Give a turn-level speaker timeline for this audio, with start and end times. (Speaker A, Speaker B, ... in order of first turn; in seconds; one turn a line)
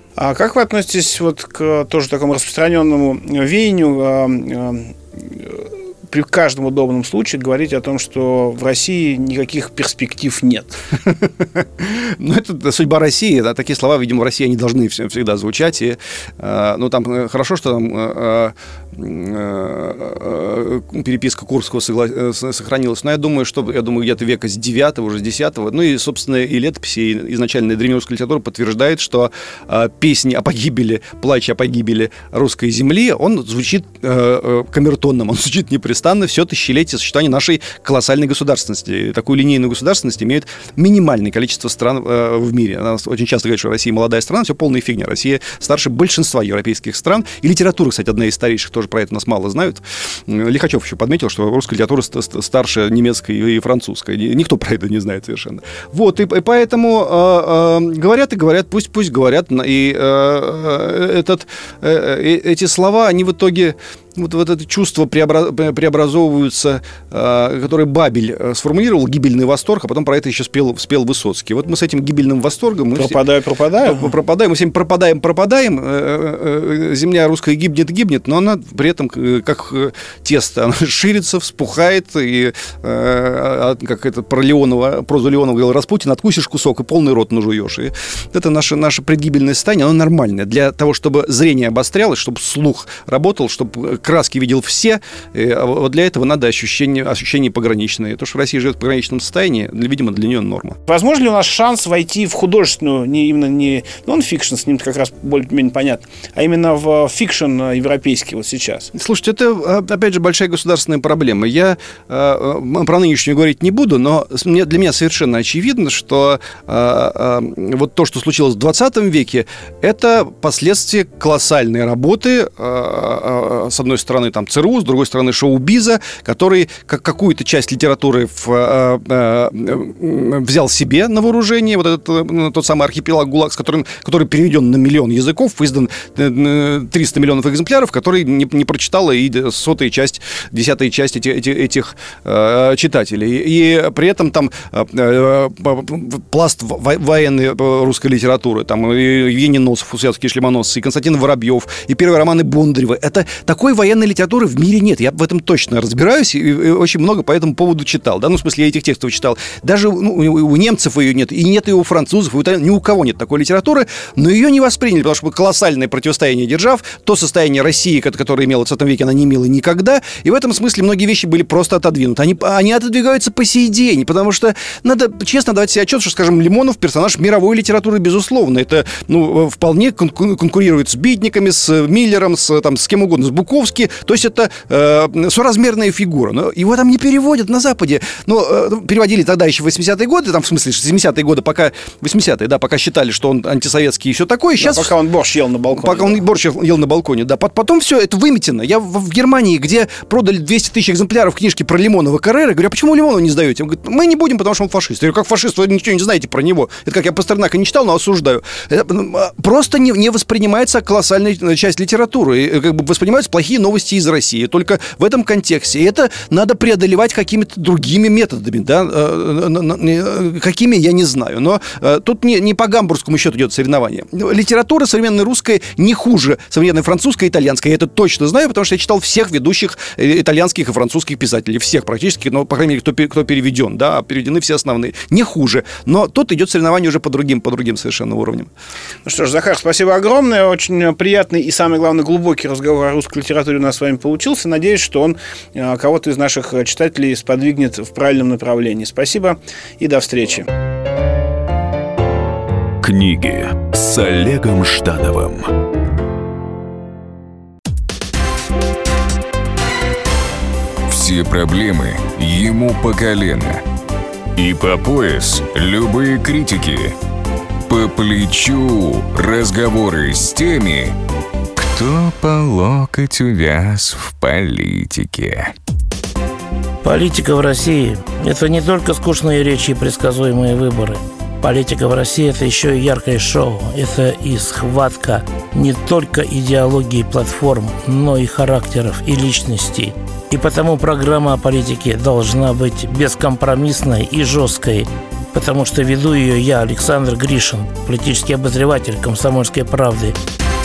Speaker A: 0.2-10.8
Speaker B: 11.0-73.2
Speaker A: 72.9-74.1
Speaker B: 73.8-100.8
Speaker A: 100.9-108.9
Speaker B: 108.9-194.9
Speaker A: 194.6-196.2
Speaker B: 195.7-238.5
Speaker A: 239.0-250.4
Speaker C: 252.8-255.5
Speaker D: 260.9-263.6
Speaker D: 264.3-266.9
Speaker D: 267.7-270.9
Speaker D: 271.6-275.5
Speaker E: 276.8-300.1